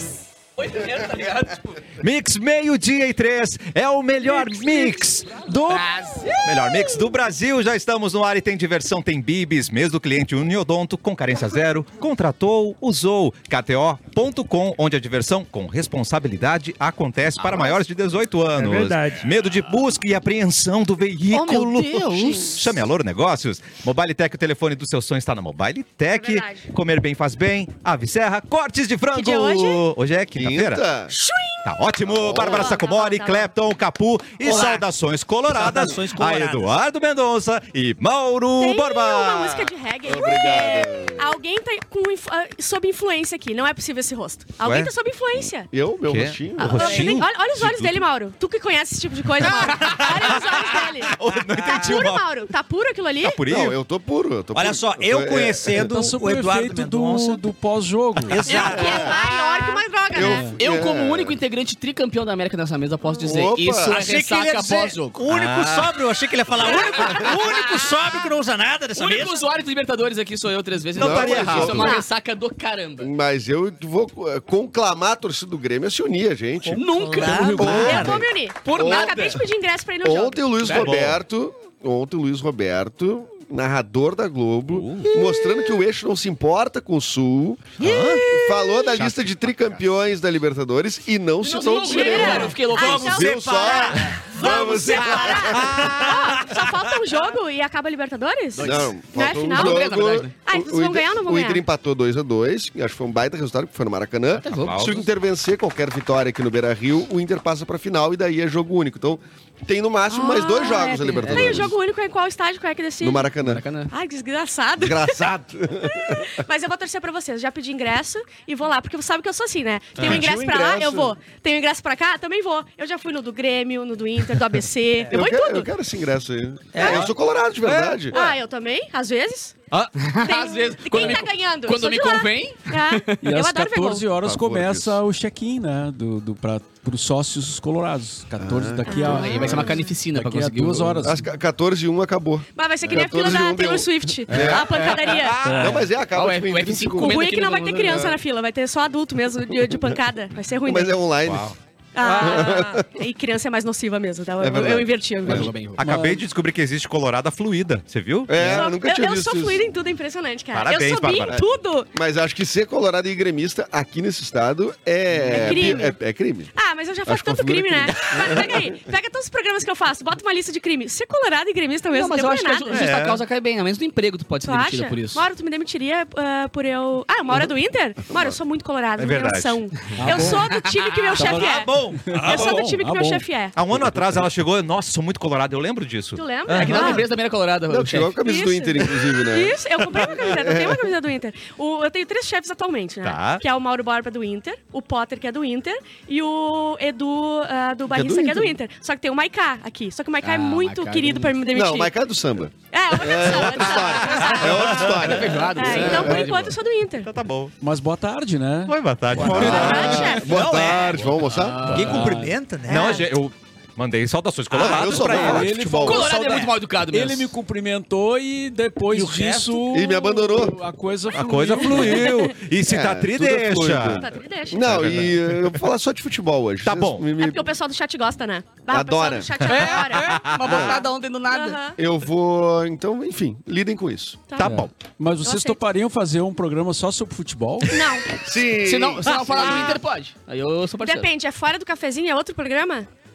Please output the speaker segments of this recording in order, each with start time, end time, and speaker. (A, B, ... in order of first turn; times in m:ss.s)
0:00.6-0:01.8 A
0:02.0-0:30.8 B
0:05.7-0:06.8 A
0:21.3-0:22.7 A
0:26.1-0:26.7 C
0:29.1-0:29.9 C
0:30.4-0:31.1 D
0:31.1-0:31.8 C
0:31.6-0:39.7 B
0:32.0-0:32.8 D
0:32.4-0:33.5 C
0:34.4-0:34.9 E
0:35.5-0:36.8 E
0:38.6-0:45.7 C
0:40.0-0:41.4 D
0:44.6-0:45.5 B
0:45.7-0:47.2 D
0:46.1-0:48.0 B
0:46.6-0:53.5 C
0:49.4-0:52.2 B
0:49.6-0:50.1 E
0:53.2-0:53.8 B
0:53.5-0:55.9 D
0:54.5-0:57.4 E
0:55.8-0:58.4 F
0:58.3-0:59.2 E
0:58.4-1:00.5 C
0:58.6-0:59.2 D
1:00.1-1:01.4 D
1:00.2-1:00.5 F
1:00.6-1:05.2 A
1:03.0-1:03.3 C
1:03.2-1:04.0 D
1:03.8-1:09.4 E
1:05.3-1:06.0 B
1:06.6-1:07.2 C
1:09.0-1:13.1 A
1:11.0-1:11.9 B
1:11.0-1:11.9 D
1:11.8-1:12.1 C
1:13.0-1:16.9 D
1:16.6-1:18.2 E
1:16.7-1:19.4 A
1:17.6-1:19.4 D
1:17.6-1:20.6 C
1:20.0-1:36.0 D
1:20.6-1:20.9 A
1:20.7-1:21.2 B
1:24.7-1:25.1 B
1:25.2-1:25.4 C
1:27.8-1:28.3 B
1:27.8-1:28.9 C
1:29.0-1:29.3 B
1:31.4-1:33.2 A
1:31.8-1:41.6 C
1:32.2-1:36.6 E
1:35.5-1:36.2 B
1:38.5-1:40.3 A
1:38.6-1:51.7 D
1:44.4-1:45.0 A
1:44.6-1:45.0 B
1:50.1-1:53.3 C
1:50.9-1:51.7 A
1:53.0-1:53.6 D
1:53.4-1:53.9 A
1:53.9-1:55.2 C
1:54.8-1:56.4 D
1:55.8-2:05.7 C
2:00.0-2:00.3 B
2:00.0-2:01.2 D
2:05.1-2:08.2 D
2:06.7-2:07.1 E
2:06.8-2:07.0 C
2:07.7-2:08.2 B
2:08.1-2:09.6 C
2:10.0-2:13.2 A
2:10.2-2:14.1 C
2:13.2-2:21.2 F
2:14.2-2:15.0 D
2:18.4-2:19.8 D
2:18.9-2:20.0 C
2:19.0-2:21.1 A
2:21.0-2:25.0 D
2:22.6-2:25.5 C
2:24.3-2:25.2 A
2:25.0-2:25.9 B
2:25.5-2:27.3 D
2:25.7-2:28.1 A
2:27.0-2:31.1 C
2:27.8-2:28.2 D
2:30.6-2:31.6 D
2:31.2-2:32.8 B
2:32.0-2:35.5 C
2:32.2-2:32.8 D
2:34.4-2:35.5 D
2:35.2-2:35.8 A
2:35.8-2:38.6 B
2:35.8-2:36.3 F
2:38.3-2:39.6 D
2:38.4-2:41.9 C
2:40.5-2:41.4 B
2:41.9-2:46.5 D
2:45.3-2:46.0 C
2:46.6-2:52.9 C
2:47.0-2:48.9 D
2:51.9-2:55.2 A
2:52.7-2:53.2 B
2:54.4-3:01.7 C
2:59.0-2:59.6 B
3:00.0-3:00.5 F
3:00.1-3:00.8 A
3:01.1-3:01.5 F
3:01.2-3:02.6 E
3:02.0-3:04.2 F
3:02.2-3:03.6 C
3:03.6-3:07.0 B
3:06.2-3:07.1 C
3:06.6-3:08.1 A
3:07.7-3:09.6 D
3:08.2-3:21.9 C
3:09.9-3:10.3 B
3:10.2-3:10.9 D
3:13.0-3:13.4 B
3:17.9-3:18.6 D
3:20.2-3:21.4 A
3:21.5-3:26.3 D
3:22.7-3:24.9 C
3:24.1-3:24.4 B
3:24.3-3:26.6 A
3:25.6-3:27.1 C
3:27.0-3:27.5 B
3:27.6-3:30.1 F
3:28.7-3:30.1 B
3:29.2-3:31.8 D
3:29.4-3:30.4 C
3:30.2-3:31.0 E
3:31.2-3:32.2 A
3:31.7-3:32.3 F
3:31.7-3:33.0 E
3:32.7-3:33.1 C
3:32.7-3:35.6 B
3:34.5-3:36.1 D
3:34.8-3:36.1 F
3:35.8-3:37.3 A
3:35.9-3:36.5 E
3:36.9-3:42.3 F
3:38.9-3:39.8 E
3:39.7-3:40.6 D
3:41.1-3:44.1 B
3:42.6-3:47.5 D
3:43.9-3:44.8 C
3:44.6-3:45.6 B
3:46.6-3:47.0 B
3:47.2-3:51.8 C
3:48.7-3:49.5 D
3:49.4-3:50.6 B
3:49.5-3:51.6 A
3:50.4-3:50.8 D
3:51.8-3:54.2 D
3:54.3-3:54.6 C
3:54.4-3:54.7 B
3:54.4-3:57.8 F
3:55.2-3:55.6 C
3:57.6-3:58.2 C
3:58.2-3:59.6 D
3:58.6-4:01.1 A
3:59.3-3:59.8 C
4:00.8-4:02.9 C